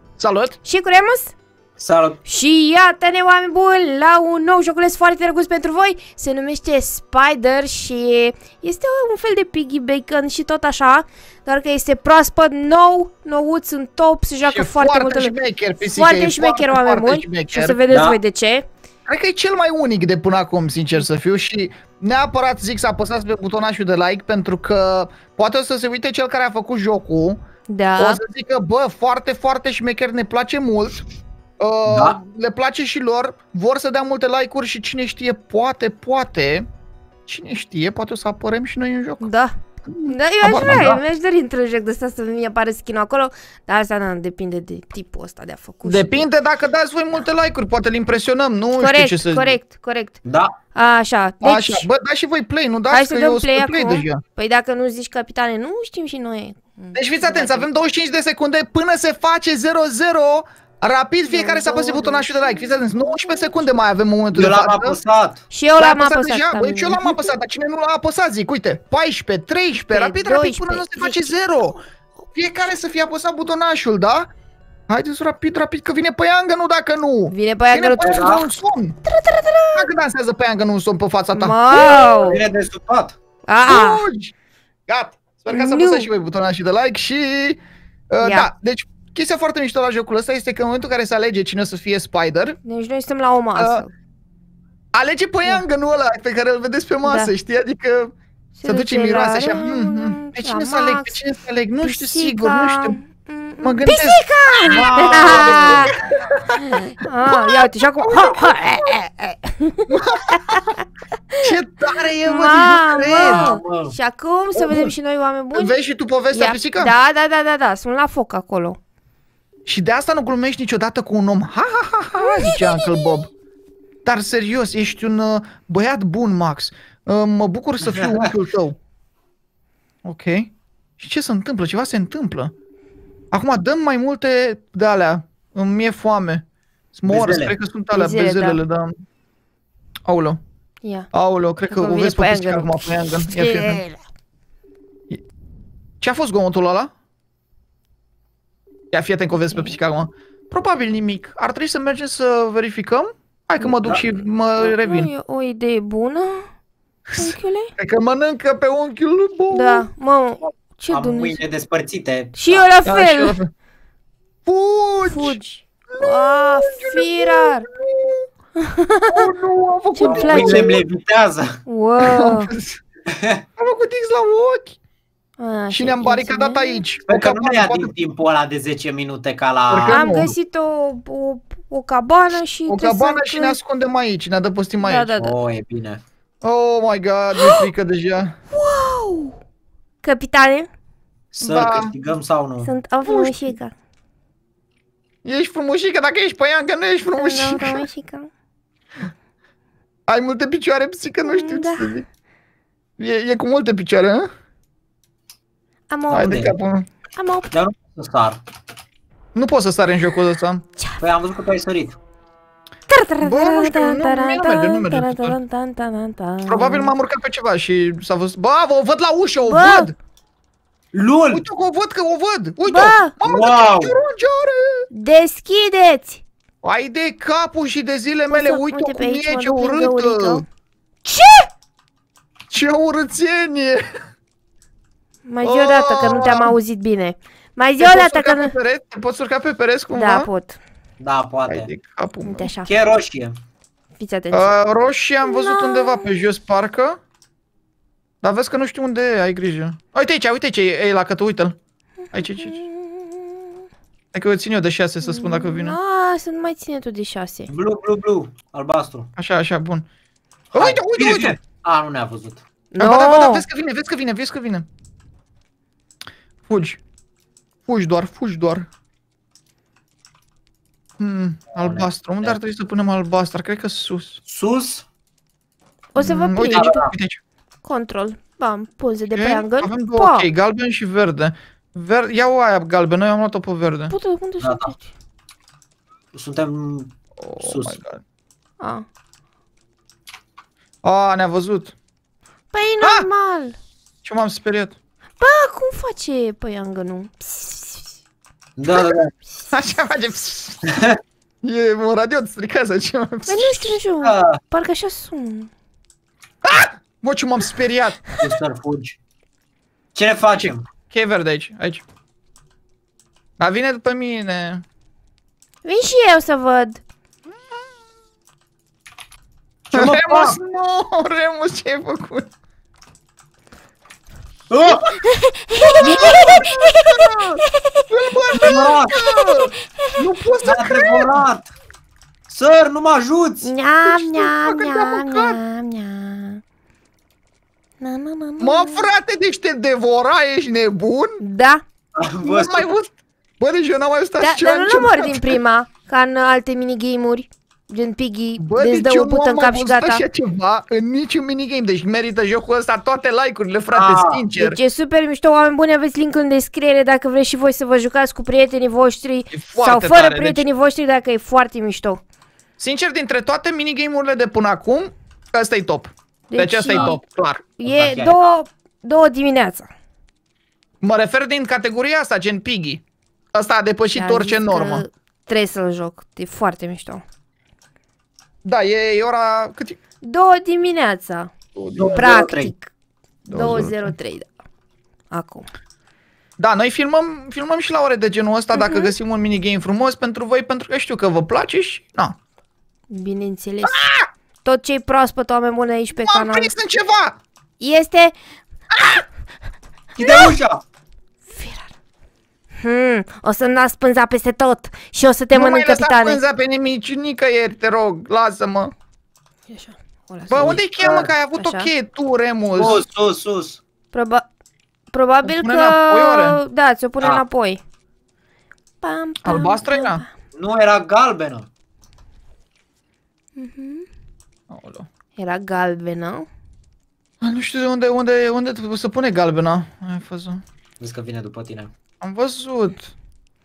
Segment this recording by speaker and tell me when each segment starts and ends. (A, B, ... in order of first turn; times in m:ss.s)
0:00.2-0:00.6 A
0:00.6-0:01.4 B
0:01.8-0:02.2 C
0:02.2-0:18.7 B
0:14.5-0:17.8 A
0:17.9-0:18.2 C
0:19.1-0:27.4 A
0:27.7-0:28.2 B
0:28.0-0:31.0 A
0:31.6-0:36.6 A
0:31.9-0:32.2 C
0:37.3-0:39.2 A
0:39.2-0:39.5 B
0:39.9-0:41.0 A
0:40.1-0:46.3 B
0:40.6-0:40.9 C
0:45.8-0:49.6 A
0:48.8-0:50.2 B
0:50.2-0:50.5 C
0:50.7-0:51.9 B
0:51.4-0:54.2 A
0:52.9-0:57.7 B
0:57.0-1:05.0 A
1:01.3-1:03.6 B
1:04.3-1:05.4 C
1:05.5-1:07.3 B
1:05.8-1:11.8 A
1:09.9-1:11.4 B
1:12.4-1:14.3 A
1:14.9-1:19.0 A
1:17.3-1:18.4 B
1:18.0-1:18.5 C
1:19.0-1:19.9 B
1:19.8-1:22.3 A
1:21.3-1:22.4 B
1:21.7-1:23.2 C
1:23.5-1:24.1 B
1:23.6-1:24.3 A
1:24.9-1:27.6 A
1:25.5-1:26.1 B
1:28.1-1:32.6 A
1:28.2-1:28.5 B
1:32.6-1:33.9 B
1:33.6-1:33.8 A
1:34.9-1:38.1 A
1:37.0-1:37.3 B
1:38.6-1:41.2 B
1:38.7-1:43.0 A
1:41.8-1:46.0 B
1:43.6-1:46.6 A
1:44.7-1:46.0 C
1:46.6-1:50.8 B
1:47.3-1:49.0 A
1:49.9-1:50.7 A
1:51.4-1:53.5 A
1:52.2-1:55.8 B
1:53.1-1:54.0 C
1:54.6-1:54.9 A
1:55.6-1:56.9 A
1:56.3-1:58.8 B
1:59.7-2:03.3 A
2:02.2-2:03.2 B
2:04.0-2:08.8 A
2:07.8-2:08.3 C
2:10.0-2:12.5 A
2:13.3-2:18.9 A
2:17.1-2:17.6 C
2:17.9-2:18.6 B
2:20.1-2:20.4 A
2:20.8-2:21.1 B
2:21.1-2:23.8 A
2:21.7-2:24.0 B
2:26.0-2:26.9 A
2:28.9-2:35.1 A
2:29.4-2:29.8 B
2:34.6-2:36.5 B
2:37.1-2:39.9 A
2:37.2-2:37.7 B
2:39.5-2:41.4 B
2:40.9-2:42.7 C
2:42.4-2:43.4 B
2:42.8-2:43.5 A
2:44.5-2:45.4 A
2:45.1-2:47.7 B
2:45.9-2:48.3 A
2:48.6-2:49.2 B
2:49.1-2:50.8 A
2:49.9-2:50.8 B
2:50.0-2:51.6 C
2:51.7-2:52.5 B
2:52.0-2:52.8 A
2:53.6-2:54.8 A
2:55.4-2:56.8 B
2:55.7-2:57.9 A
2:57.1-3:00.0 C
2:59.7-3:00.3 A
2:59.9-3:03.6 B
3:02.7-3:05.1 A
3:04.8-3:05.3 B
3:05.2-3:06.0 C
3:06.4-3:08.4 A
3:07.4-3:07.7 B
3:08.5-3:09.4 B
3:10.0-3:10.7 B
3:11.3-3:12.7 C
3:11.4-3:11.9 A
3:12.6-3:13.7 B
3:13.0-3:13.5 A
3:15.2-3:17.8 A
3:17.2-3:18.3 B
3:20.1-3:22.0 A
3:21.2-3:22.0 B
3:23.0-3:24.3 A
3:25.9-3:26.4 B
3:26.1-3:26.5 C
3:26.1-3:26.9 A
3:27.2-3:27.6 B
3:27.5-3:28.4 C
3:29.4-3:30.6 A
3:31.0-3:32.0 C
3:32.9-3:36.9 B
3:33.2-3:35.4 A
3:36.5-3:40.0 A
3:39.4-3:39.9 B
3:40.9-3:41.4 C
3:41.3-3:44.9 A
3:42.7-3:43.1 B
3:43.2-3:44.0 C
3:44.9-3:46.2 B
3:46.6-3:50.4 A
3:48.3-3:50.4 B
3:51.0-3:51.5 B
3:52.5-3:53.8 A
3:55.3-3:58.5 B
3:55.4-3:56.6 A
3:57.8-4:00.3 A
3:59.9-4:00.6 B
4:01.0-4:01.7 C
4:01.5-4:02.5 A
4:02.2-4:02.7 B
4:02.6-4:03.4 C
4:04.0-4:04.5 B
4:04.3-4:07.0 A
4:05.2-4:06.3 B
4:08.2-4:11.6 A
4:12.1-4:13.6 B
4:12.1-4:12.6 A
4:14.1-4:15.8 A
4:15.0-4:17.5 B
4:17.5-4:19.1 C
4:19.2-4:19.8 A
4:20.5-4:21.4 A
4:20.5-4:22.4 C
4:22.7-4:23.5 B
4:22.8-4:24.7 A
4:26.5-4:26.8 A
4:27.7-4:28.7 A
4:31.0-4:34.2 A
4:31.5-4:32.4 C
4:34.3-4:34.8 C
4:35.9-4:36.8 B
4:36.0-4:37.2 A
4:36.5-4:36.9 C
4:37.6-4:40.3 B
4:39.1-4:43.9 A
4:43.9-4:44.9 B
4:44.4-4:44.7 C
4:46.1-4:47.8 C
4:47.2-4:48.0 A
4:48.6-4:48.8 B
4:50.8-4:51.8 A
4:52.5-4:53.6 B
4:52.8-4:53.1 A
4:54.0-4:54.8 A
4:55.2-4:57.9 B
4:58.6-4:59.1 C
4:59.4-4:59.8 B
4:59.5-5:00.6 A
5:01.4-5:03.8 A
5:03.3-5:05.5 B
5:04.0-5:04.4 C
5:06.4-5:08.0 A
5:08.2-5:09.0 C
5:10.0-5:10.7 C
5:10.4-5:11.8 A
5:13.4-5:14.6 A
5:15.6-5:16.8 B
5:19.7-5:20.4 C
5:19.7-5:22.3 A
5:24.5-5:25.0 C
5:25.0-5:27.8 B
5:25.6-5:31.2 A
5:25.8-5:26.3 C
5:28.4-5:29.0 C
5:29.0-5:30.0 B
5:30.4-5:31.5 C
5:32.3-5:33.5 C
5:33.4-5:36.4 B
5:33.8-5:35.4 A
5:37.8-5:38.9 B
5:38.4-5:41.2 A
5:41.2-5:41.6 B
5:42.0-5:42.7 C
5:42.2-5:45.4 A
5:44.2-5:50.0 B
5:48.4-5:54.6 A
5:53.7-5:54.2 C
5:54.4-6:02.0 B
5:59.3-6:00.5 A
6:02.6-6:07.5 A
6:06.3-6:07.0 B
6:06.7-6:07.0 C
6:07.6-6:09.7 B
6:07.6-6:08.3 C
6:10.8-6:12.8 A
6:13.3-6:14.8 A
6:13.9-6:17.0 B
6:18.4-6:19.8 A
6:20.0-6:21.3 B
6:21.6-6:22.1 A
6:21.8-6:22.5 C
6:22.0-6:22.7 B
6:23.3-6:23.9 A
6:23.3-6:24.3 B
6:25.1-6:25.5 B
6:26.4-6:32.2 A
6:28.6-6:28.9 B
6:32.9-6:33.9 B
6:33.7-6:34.1 A
6:34.4-6:36.5 B
6:36.0-6:37.2 A
6:37.6-6:38.1 B
6:38.8-6:39.0 A
6:40.0-6:40.6 C
6:40.0-6:40.4 B
6:41.3-6:41.7 B
6:42.6-6:46.2 B
6:45.3-6:48.7 A
6:49.5-6:50.6 B
6:50.3-6:52.8 A
6:50.4-6:51.1 C
6:51.3-6:51.7 B
6:52.5-6:53.6 C
6:53.9-6:54.2 B
6:54.9-6:57.6 B
6:55.2-6:56.4 A
6:58.8-7:00.1 B
6:59.2-7:00.0 A
7:00.4-7:01.5 C
7:03.4-7:03.9 B
7:04.5-7:04.9 A
7:05.2-7:06.3 B
7:07.2-7:10.4 A
7:10.8-7:11.7 C
7:12.0-7:12.9 A